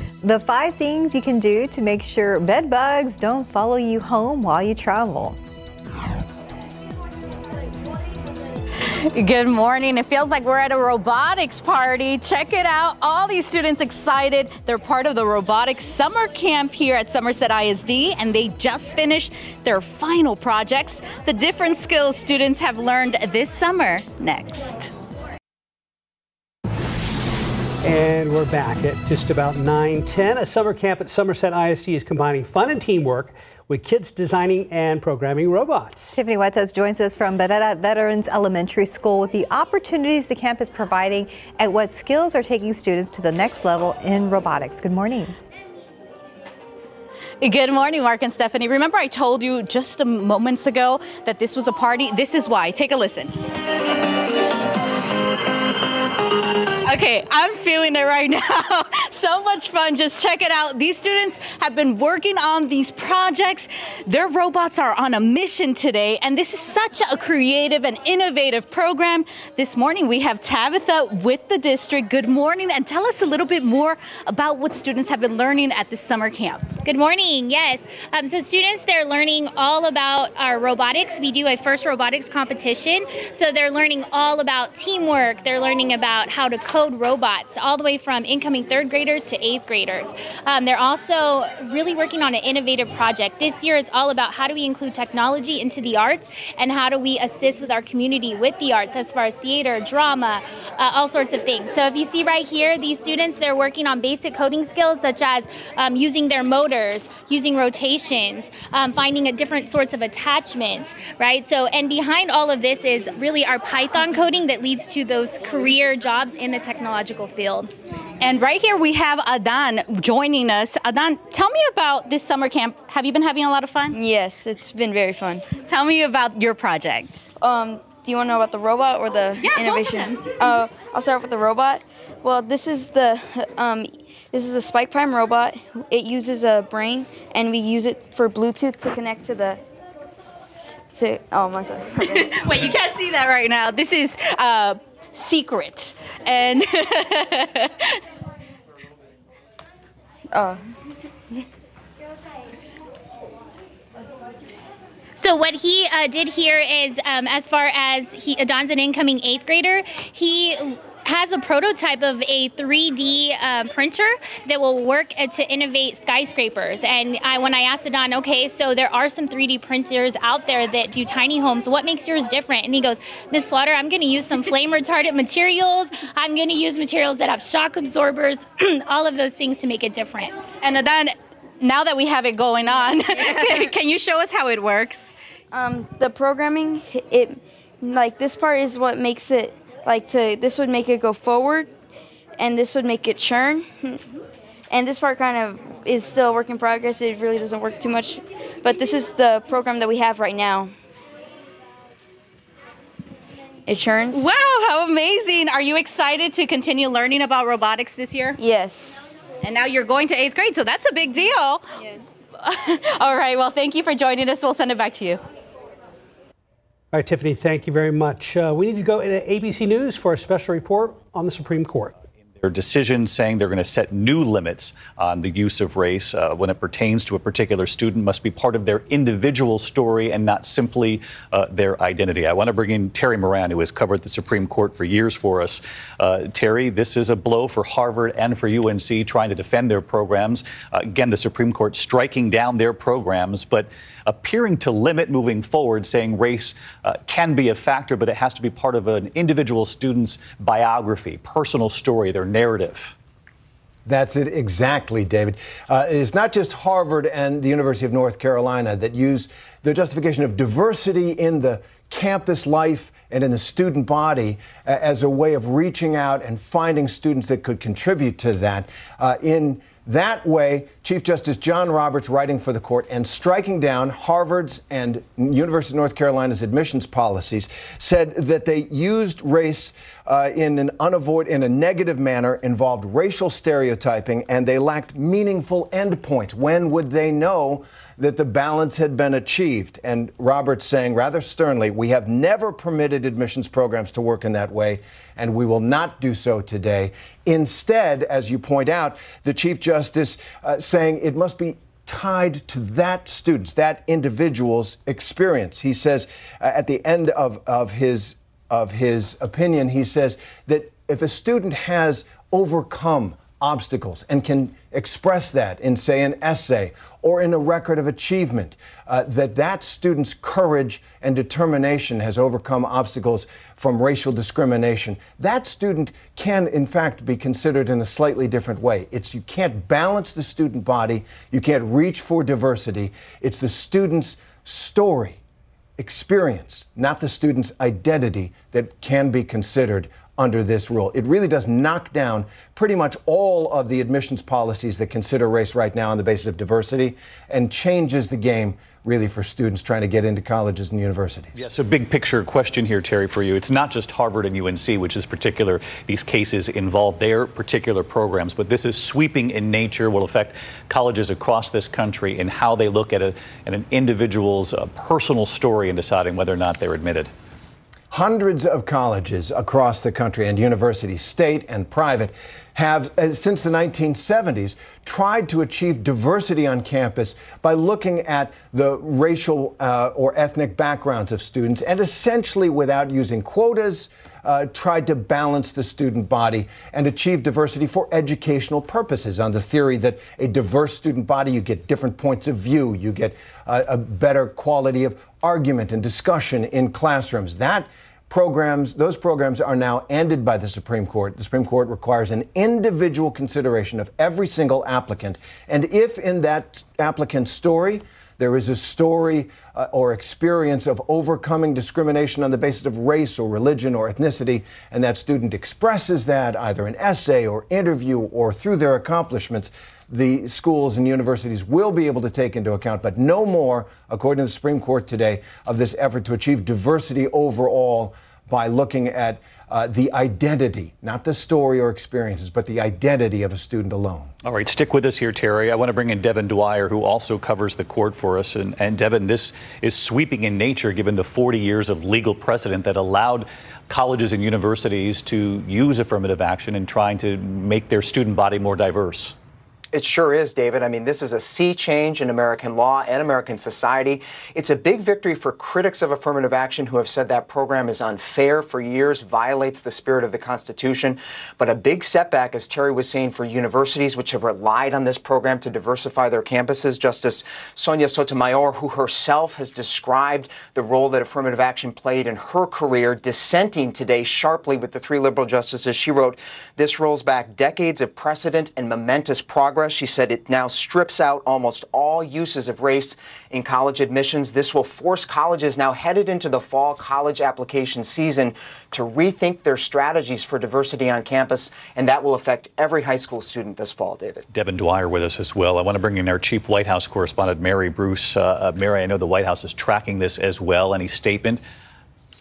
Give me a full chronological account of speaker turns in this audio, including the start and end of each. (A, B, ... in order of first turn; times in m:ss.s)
0:00.2-0:05.4 A
0:09.1-0:24.9 B
0:27.8-0:36.2 C
0:36.1-0:45.3 A
0:47.4-0:53.4 B
0:56.8-1:16.7 B
1:16.8-1:57.7 D
1:58.2-2:04.0 B
2:03.9-2:05.6 E
2:05.6-2:07.2 B
2:07.4-2:19.6 E
2:09.4-2:10.2 B
2:20.9-2:22.7 E
2:22.1-2:27.9 B
2:30.3-2:30.6 E
2:35.2-3:00.4 D
3:00.6-3:05.1 B
3:05.5-3:11.7 E
3:12.4-3:14.1 E
3:14.7-3:20.7 E
3:23.6-3:24.2 E
3:24.1-3:28.4 B
3:28.4-3:29.2 E
3:29.4-3:31.7 B
3:31.8-3:32.1 E
3:32.4-3:35.2 B
3:36.9-3:41.9 C
3:42.4-4:12.9 F
4:13.8-5:35.2 G
5:35.8-5:51.3 G
5:51.4-6:07.1 F
6:07.9-7:14.1 G
7:14.2-7:29.1 F
7:29.7-8:14.2 H
8:14.3-8:21.4 F